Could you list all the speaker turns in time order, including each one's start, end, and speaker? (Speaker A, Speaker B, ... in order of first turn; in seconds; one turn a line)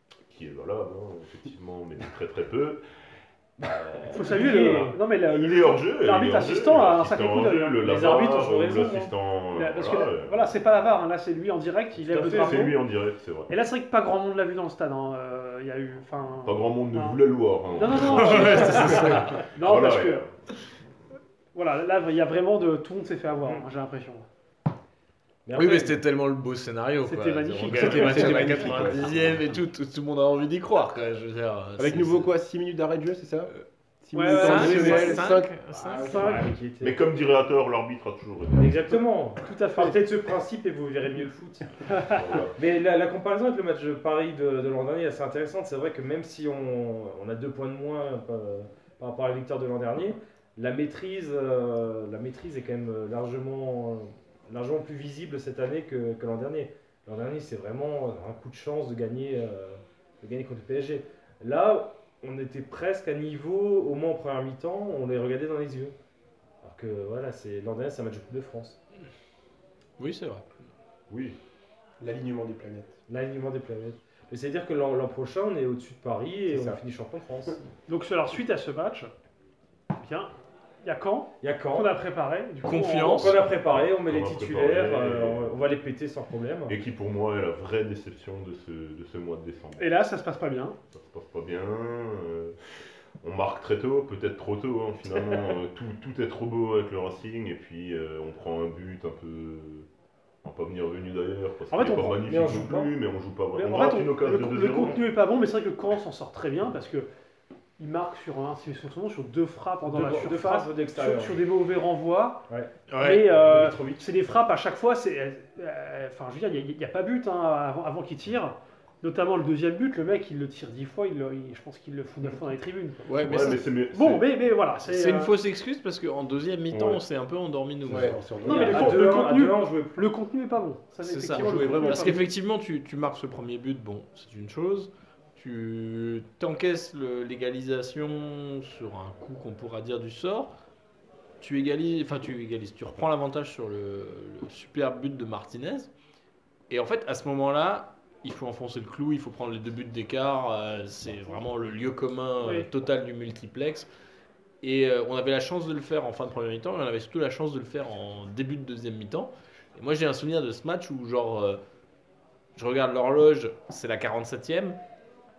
Speaker A: 0.3-2.8
Speaker B: 3.6-5.0
Speaker A: 3.6-10.5
Speaker C: 4.1-8.3
Speaker B: 7.8-9.1
Speaker C: 9.5-12.8
Speaker B: 12.1-12.8
Speaker A: 12.1-13.5
Speaker C: 13.5-17.2
Speaker A: 16.4-20.3
Speaker C: 17.7-20.2
Speaker D: 18.2-19.4
Speaker C: 21.6-24.3
Speaker B: 25.5-26.0
Speaker D: 25.5-32.3
Speaker C: 27.0-28.7
Speaker B: 27.7-29.2
Speaker E: 27.9-29.4
Speaker E: 31.8-33.5
Speaker E: 34.0-35.5
Speaker C: 34.1-35.3
Speaker D: 34.3-36.4
Speaker B: 34.3-37.0
Speaker C: 35.9-36.5
Speaker A: 36.8-38.8
Speaker B: 38.6-41.9
Speaker C: 39.4-40.0
Speaker C: 41.9-42.3
Speaker A: 42.1-42.5
Speaker B: 42.5-66.0
Speaker B: 66.6-68.8
Speaker D: 70.0-70.5
Speaker A: 71.1-71.4
Speaker E: 72.0-73.0
Speaker B: 73.1-77.6
Speaker E: 76.5-76.8
Speaker C: 77.9-79.1
Speaker C: 80.0-80.3
Speaker C: 80.8-83.3
Speaker B: 81.4-81.9
Speaker D: 82.6-83.4
Speaker B: 83.0-86.8
Speaker A: 83.4-85.5
Speaker A: 86.7-89.9
Speaker C: 89.8-90.8
Speaker A: 90.9-92.6
Speaker A: 93.2-99.9
Speaker A: 100.4-105.0
Speaker C: 101.7-102.2
Speaker B: 102.2-102.9
Speaker C: 103.5-107.1
Speaker C: 107.8-112.4
Speaker B: 109.9-111.4
Speaker D: 112.9-113.2
Speaker C: 113.0-123.0
Speaker B: 113.2-114.1
Speaker D: 123.1-123.6
Speaker A: 123.2-124.2
Speaker C: 123.9-125.3
Speaker D: 124.9-128.2
Speaker A: 126.7-127.0
Speaker E: 127.8-129.0
Speaker B: 128.4-130.1
Speaker C: 128.4-132.3
Speaker D: 131.1-140.5
Speaker E: 131.2-132.3
Speaker D: 141.4-145.9
Speaker D: 146.7-153.9
Speaker C: 152.4-152.7
Speaker D: 154.6-161.6
Speaker D: 162.6-164.8